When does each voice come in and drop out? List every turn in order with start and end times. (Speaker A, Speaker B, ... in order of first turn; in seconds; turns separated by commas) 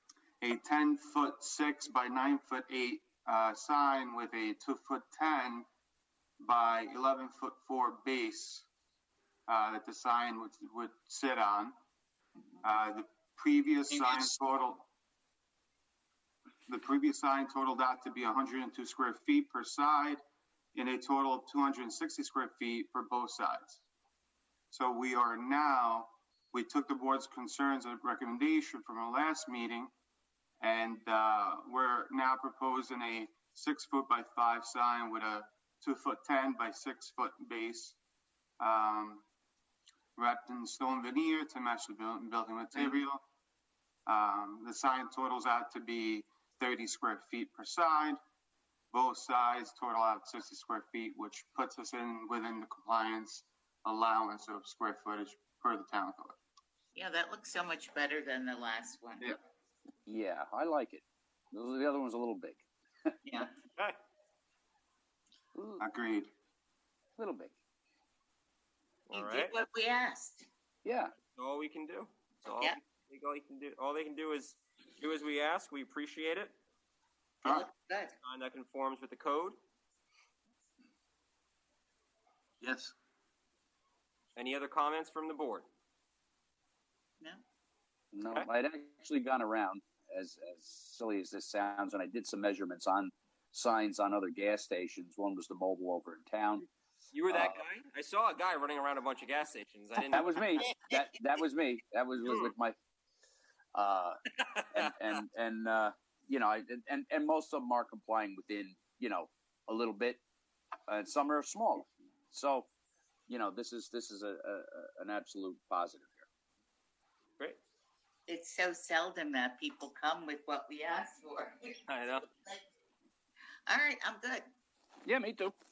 Speaker A: 0.4-5.7, Speaker A: 6.4-8.7, Speaker A: 9.5-11.8, Speaker A: 12.6-14.8, Speaker A: 16.7-20.2, Speaker A: 20.8-23.8, Speaker A: 24.7-29.9, Speaker A: 30.6-38.0, Speaker A: 38.6-39.2, Speaker A: 40.2-43.2, Speaker A: 44.1-48.2, Speaker A: 48.9-56.4, Speaker B: 56.9-59.2, Speaker C: 60.1-63.1, Speaker C: 65.5-65.8, Speaker A: 65.8-66.3, Speaker C: 67.2-67.5, Speaker D: 69.1-69.6, Speaker B: 69.1-70.5, Speaker C: 70.8-71.1, Speaker D: 71.2-76.5, Speaker B: 77.5-78.1, Speaker D: 78.2-79.6, Speaker A: 82.6-82.9, Speaker D: 84.3-85.7, Speaker C: 88.1-96.7, Speaker D: 97.1-100.7, Speaker C: 97.3-97.6, Speaker C: 100.0-102.7, Speaker C: 103.7-110.2, Speaker D: 104.4-104.6, Speaker C: 110.9-112.7, Speaker C: 113.3-116.2, Speaker B: 118.3-121.7, Speaker D: 121.9-122.3, Speaker B: 123.7-124.5, Speaker C: 125.0-125.5